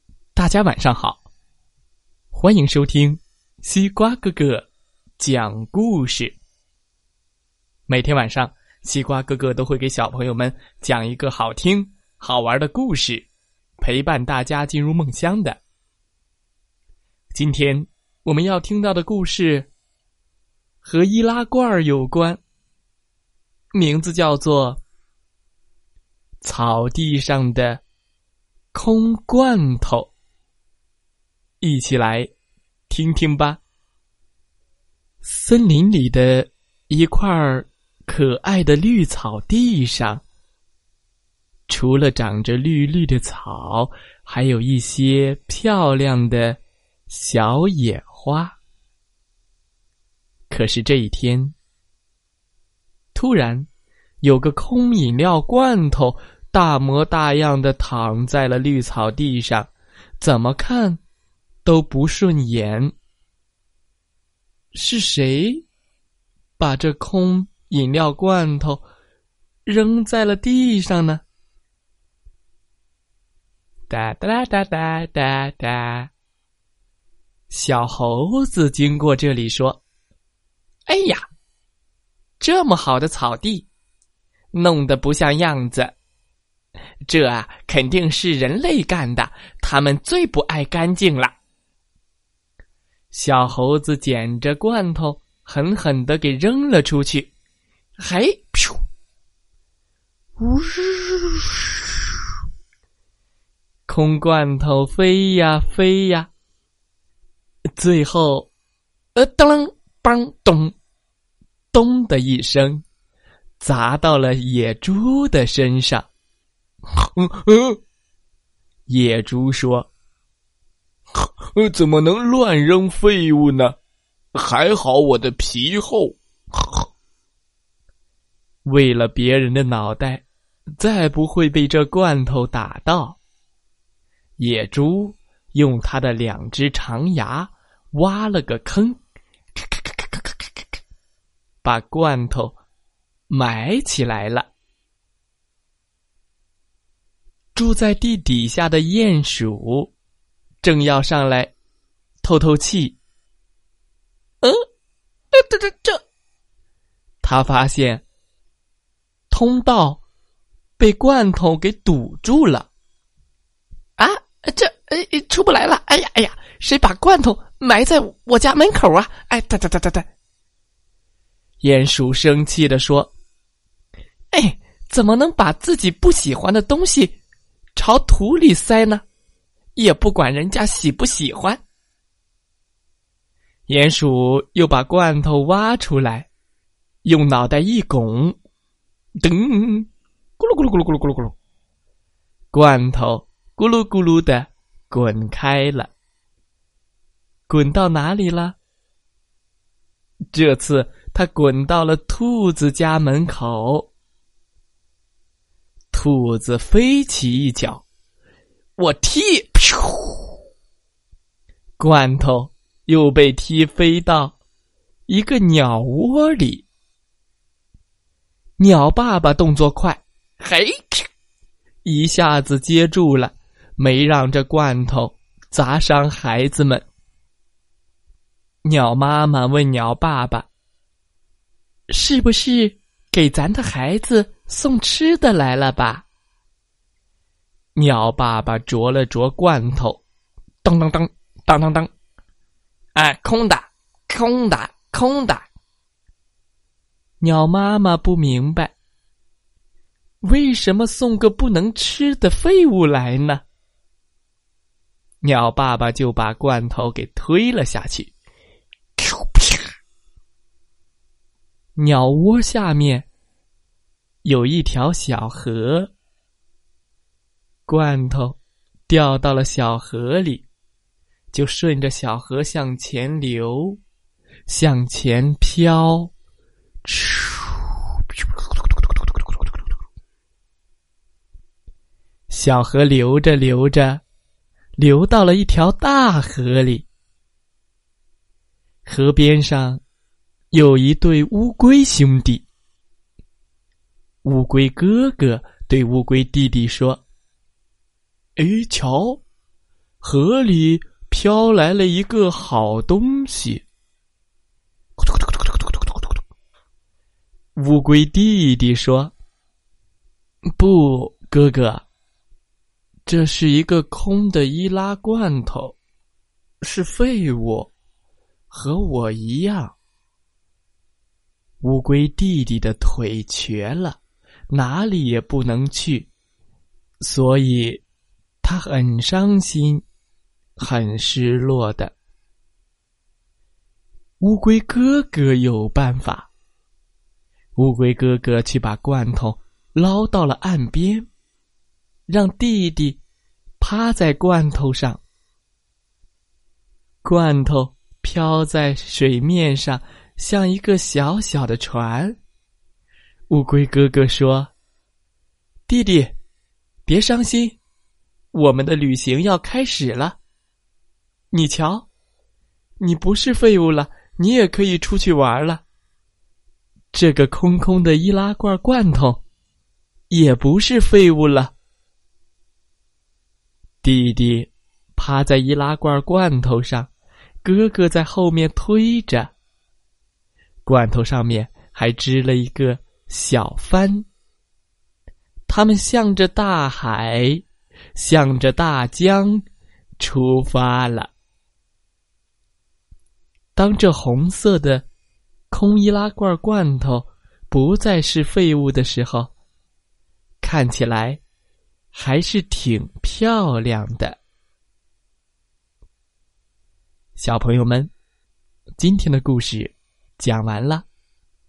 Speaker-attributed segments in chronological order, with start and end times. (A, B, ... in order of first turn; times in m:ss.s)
0:00.4-0:01.2 A
0:02.3-0:04.7 A
0:05.2-0:06.4 A
0:07.9-0:13.3 A
0:13.8-0:15.6 A
0:17.3-0:19.7 A
0:20.8-0:22.4 A
0:23.7-0:24.8 A
0:26.4-0:27.8 A
0:28.7-0:30.1 A
0:31.6-0:32.3 A
0:32.9-0:33.6 A
0:35.2-0:40.2 A
0:41.7-0:48.6 A
0:50.5-0:51.6 A
0:53.1-0:53.7 A
0:54.2-1:01.0 A
1:01.6-1:02.9 A
1:04.7-1:05.6 A
1:06.6-1:08.9 A
1:09.7-1:11.2 A
1:13.9-1:16.1 A
1:17.5-1:19.8 A
1:20.9-1:21.2 A
1:22.4-1:23.7 A
1:24.5-1:26.0 A
1:27.1-1:31.4 A
1:33.1-1:37.3 A
1:38.0-1:38.8 A
1:40.4-1:41.8 A
1:43.9-1:46.3 A
1:47.8-1:48.5 A
1:49.2-1:50.8 A
1:51.7-1:52.8 A
1:53.6-1:56.1 A
1:57.0-1:57.8 A
1:58.9-1:59.9 A
2:01.2-2:03.8 A
2:04.3-2:06.8 A
2:08.7-2:10.2 A
2:10.8-2:13.2 A
2:14.4-2:19.0 A
2:19.6-2:20.4 A
2:21.6-2:22.6 A
2:23.3-2:24.5 A
2:27.6-2:29.9 A
2:30.6-2:31.5 A
2:32.2-2:33.0 A
2:35.3-2:36.0 A
2:37.2-2:38.0 A
2:39.3-2:40.0 A
2:40.8-2:42.7 A
2:44.0-2:50.1 A
2:51.6-2:53.1 A
2:54.3-2:57.2 A
2:57.8-2:59.0 A
2:59.8-3:01.6 A
3:03.7-3:06.3 A
3:07.0-3:08.4 A
3:09.2-3:09.9 A
3:10.4-3:11.4 A
3:12.5-3:15.9 A
3:17.5-3:18.6 A
3:20.3-3:23.9 A
3:25.9-3:27.8 A
3:28.8-3:30.3 A
3:31.8-3:34.4 A
3:35.1-3:36.7 A
3:38.6-3:41.1 A
3:41.8-3:46.9 A
3:48.6-3:50.5 A
3:51.9-3:56.1 A
3:57.8-4:00.0 A
4:00.6-4:01.9 A
4:03.0-4:05.5 A
4:07.2-4:08.7 A
4:10.2-4:13.4 A
4:15.2-4:18.1 A
4:19.0-4:19.5 A
4:21.8-4:23.1 A
4:24.2-4:25.9 A
4:27.7-4:30.5 A
4:31.3-4:33.8 A
4:34.5-4:36.1 A
4:36.8-4:37.8 A
4:42.3-4:44.0 A
4:44.8-4:46.9 A
4:48.9-4:49.8 A
4:50.5-4:52.5 A
4:54.2-4:57.0 A
4:58.4-4:59.2 A
5:00.0-5:03.6 A
5:05.0-5:05.8 A
5:07.6-5:09.1 A
5:10.6-5:11.9 A
5:13.1-5:15.8 A
5:16.6-5:17.7 A
5:18.5-5:19.8 A
5:21.6-5:24.0 A
5:24.5-5:26.1 A
5:27.0-5:27.8 A
5:28.4-5:29.8 A
5:30.6-5:31.9 A
5:34.2-5:36.3 A
5:37.6-5:41.1 A
5:42.1-5:43.0 A
5:43.6-5:45.0 A
5:47.0-5:52.2 A
5:53.3-5:54.5 A
5:55.7-5:56.2 A
5:56.9-5:57.6 A
5:58.3-6:00.2 A
6:01.3-6:01.9 A
6:02.8-6:05.6 A
6:06.9-6:09.2 A
6:10.1-6:11.5 A
6:13.8-6:16.9 A
6:17.4-6:19.3 A
6:20.7-6:24.1 A
6:25.5-6:27.4 A
6:28.0-6:29.4 A
6:30.0-6:31.1 A
6:33.6-6:34.9 A
6:35.5-6:39.3 A
6:40.4-6:41.2 A
6:41.9-6:44.2 A
6:47.2-6:47.9 A
6:48.8-6:50.9 A